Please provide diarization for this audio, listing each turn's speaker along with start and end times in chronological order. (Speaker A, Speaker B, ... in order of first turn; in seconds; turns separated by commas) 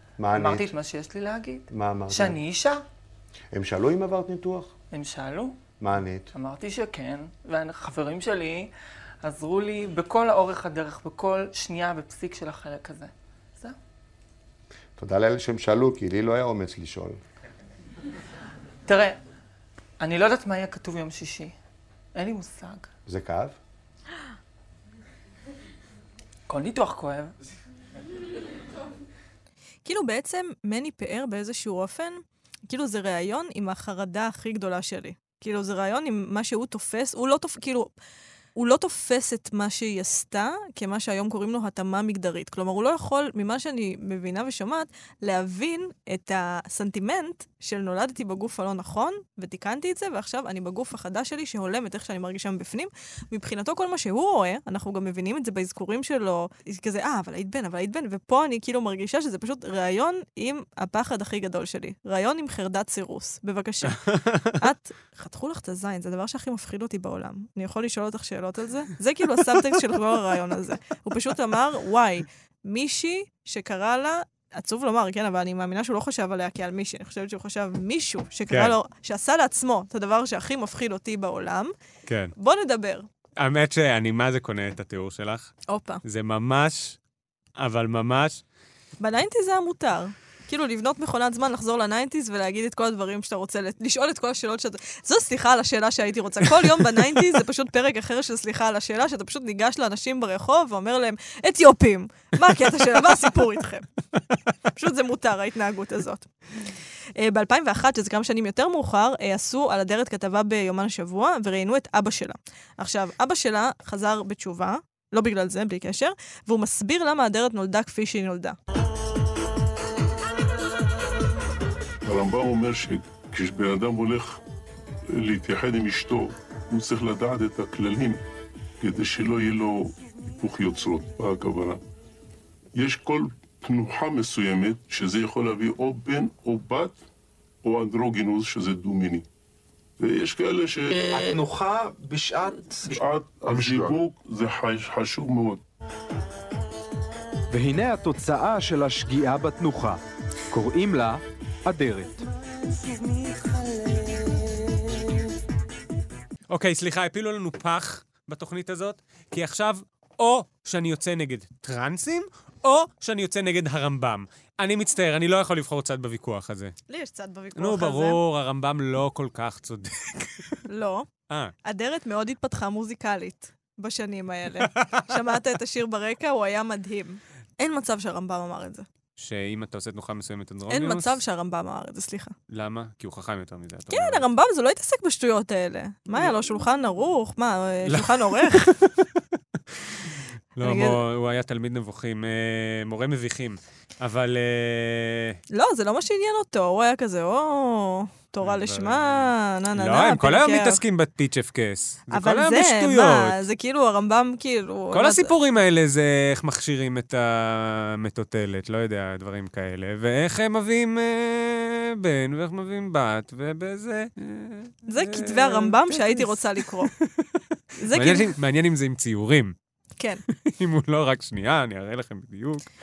Speaker A: 0.2-0.7, Speaker B: 0.3-2.8, Speaker A: 1.7-2.4, Speaker A: 3.5-4.7, Speaker B: 4.9-5.6, Speaker A: 5.8-6.3, Speaker B: 6.3-8.7, Speaker B: 9.2-13.8, Speaker A: 15.0-17.2, Speaker B: 18.9-19.2, Speaker B: 20.0-21.5, Speaker B: 22.1-22.9, Speaker A: 23.1-23.6, Speaker B: 26.5-27.3, Speaker C: 29.9-37.9, Speaker C: 38.6-64.0, Speaker D: 63.9-64.6, Speaker C: 64.6-81.7, Speaker D: 69.5-70.2, Speaker D: 78.5-78.8, Speaker D: 82.1-82.3, Speaker C: 82.4-83.1, Speaker D: 83.4-87.0, Speaker C: 85.7-86.0, Speaker D: 87.6-88.4, Speaker C: 89.0-103.9, Speaker D: 96.6-97.1, Speaker C: 104.7-106.3, Speaker C: 107.2-118.6, Speaker E: 122.0-124.4, Speaker E: 125.1-128.2, Speaker E: 128.8-131.8, Speaker E: 132.8-137.0, Speaker E: 137.6-139.3, Speaker E: 140.0-141.0, Speaker F: 141.0-143.0, Speaker E: 142.8-145.6, Speaker F: 143.6-143.9, Speaker F: 147.5-150.0, Speaker F: 150.5-152.2, Speaker B: 152.7-154.8, Speaker D: 156.5-166.8, Speaker C: 166.9-168.2, Speaker D: 167.6-170.6, Speaker C: 170.7-171.1, Speaker C: 171.7-178.9, Speaker D: 174.7-175.1, Speaker D: 179.2-181.2, Speaker C: 180.7-182.3, Speaker D: 182.5-184.3, Speaker C: 183.9-188.8, Speaker D: 187.9-189.2, Speaker D: 189.7-195.4, Speaker C: 190.6-191.0, Speaker C: 195.5-200.8, Speaker D: 198.4-203.4, Speaker C: 202.1-205.3, Speaker D: 204.9-219.6, Speaker C: 214.9-216.9, Speaker C: 217.8-218.3, Speaker D: 220.3-222.7